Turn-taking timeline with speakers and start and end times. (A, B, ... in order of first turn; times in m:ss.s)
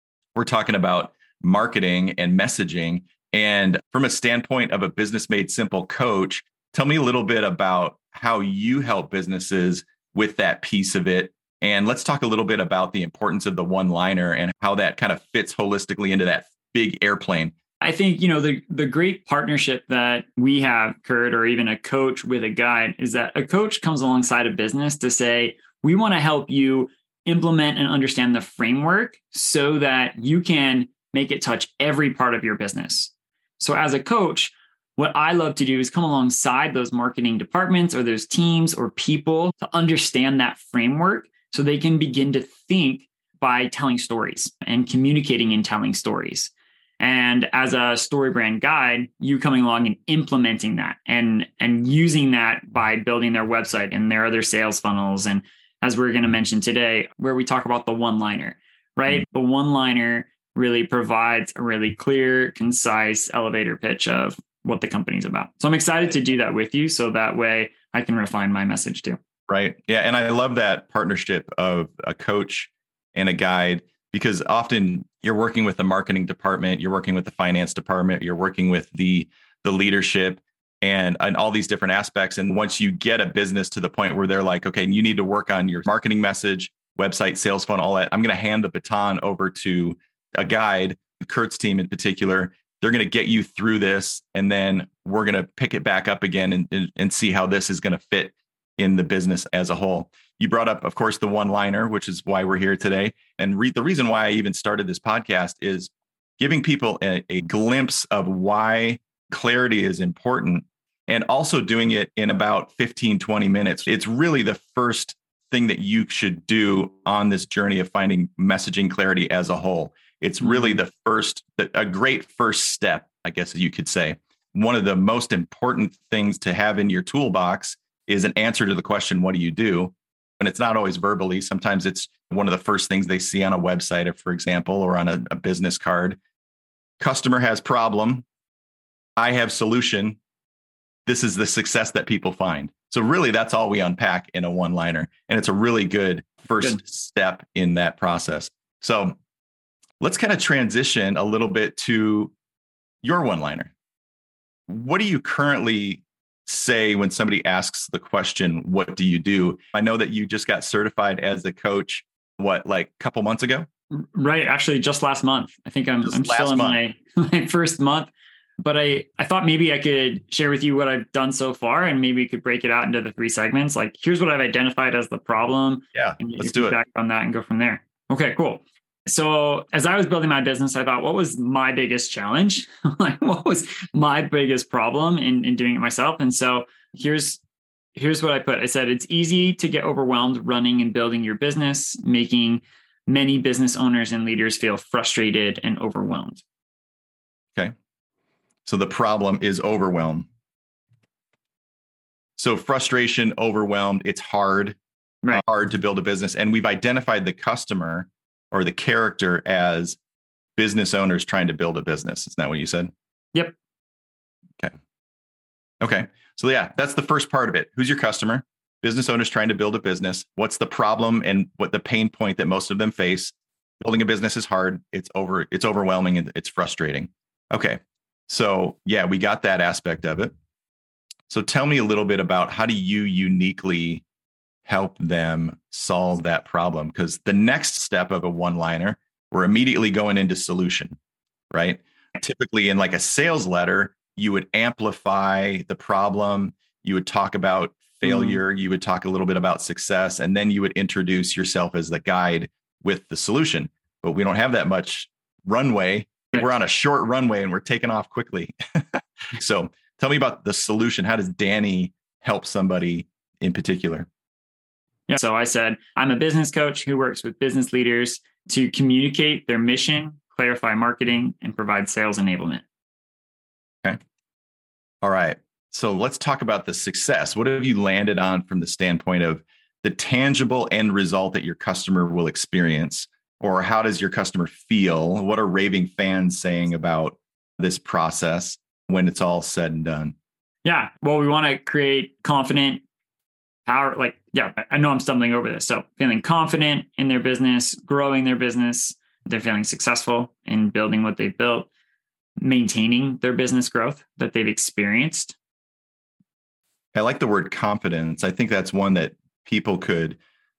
0:00.3-0:17.5 A
0:17.8-1:09.2 B
1:09.5-2:16.2 A
2:00.4-2:00.8 B
2:17.0-2:18.2 A
2:19.2-2:20.2 A
2:21.0-2:29.2 A
2:30.0-2:32.3 A
2:33.0-2:33.7 A
2:34.7-2:43.7 A
2:44.0-2:48.1 B
2:46.0-2:46.8 A
2:48.6-3:07.4 B
2:55.9-2:56.8 A
3:08.0-3:16.4 B
3:18.6-3:20.3 A
3:22.4-3:24.8 A
3:25.3-3:30.0 A
3:30.6-3:32.9 A
3:35.8-3:50.3 A
3:51.3-3:54.0 A
3:54.6-4:00.9 A
4:01.5-4:24.1 A
4:08.0-4:08.4 B
4:25.1-4:32.6 B
4:35.0-4:50.1 A
4:50.6-4:52.8 B
4:53.7-5:01.7 B
5:02.4-5:05.3 B
5:06.9-5:10.2 A